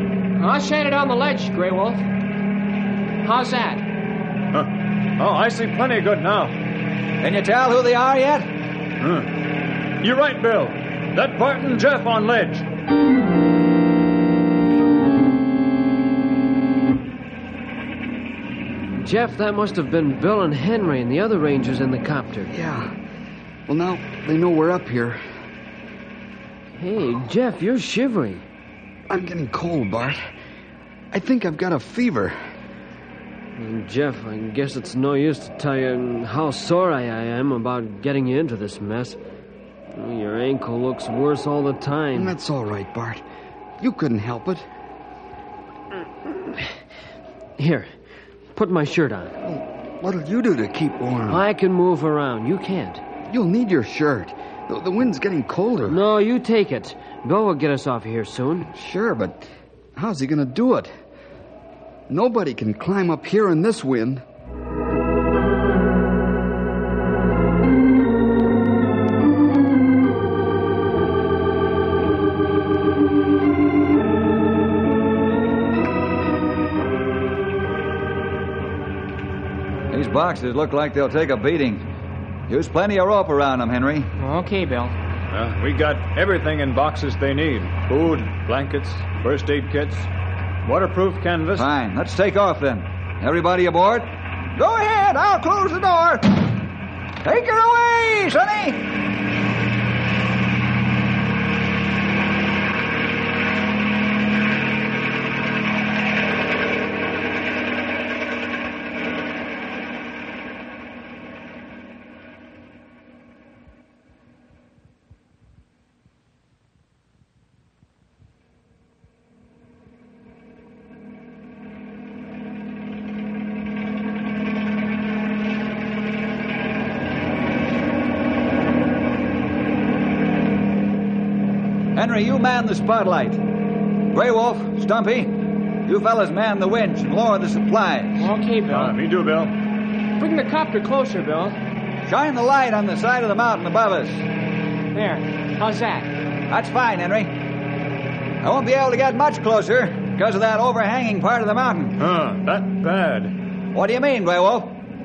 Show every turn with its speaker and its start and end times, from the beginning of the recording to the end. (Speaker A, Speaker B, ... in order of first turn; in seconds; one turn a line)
Speaker A: 0.4-2.0
Speaker A: 3.2-3.9
Speaker B: 4.5-6.6
Speaker C: 7.2-8.5
Speaker B: 9.0-9.3
Speaker B: 10.0-12.7
Speaker D: 19.0-22.5
Speaker E: 22.5-22.9
Speaker E: 23.7-25.2
Speaker D: 26.8-28.4
Speaker E: 29.1-30.3
Speaker E: 31.1-32.4
Speaker D: 33.6-39.2
Speaker D: 39.9-42.3
Speaker E: 42.1-43.2
Speaker E: 43.8-44.7
Speaker D: 46.2-46.7
Speaker D: 47.6-47.9
Speaker D: 48.5-49.4
Speaker E: 49.4-51.4
Speaker D: 51.3-53.0
Speaker E: 53.3-56.0
Speaker D: 55.9-58.7
Speaker E: 58.7-60.9
Speaker E: 62.1-64.2
Speaker C: 79.9-81.8
Speaker C: 82.5-84.1
Speaker A: 84.2-85.0
Speaker B: 85.3-90.1
Speaker B: 90.7-91.7
Speaker C: 91.6-96.6
Speaker C: 97.2-98.8
Speaker C: 131.9-133.4
Speaker C: 134.1-135.3
Speaker C: 135.8-138.3
Speaker A: 138.2-139.0
Speaker B: 138.7-139.6
Speaker A: 140.2-141.6
Speaker C: 142.1-144.2
Speaker A: 144.9-146.1
Speaker C: 146.5-147.3
Speaker C: 148.4-152.0
Speaker B: 152.0-153.3
Speaker C: 153.7-154.8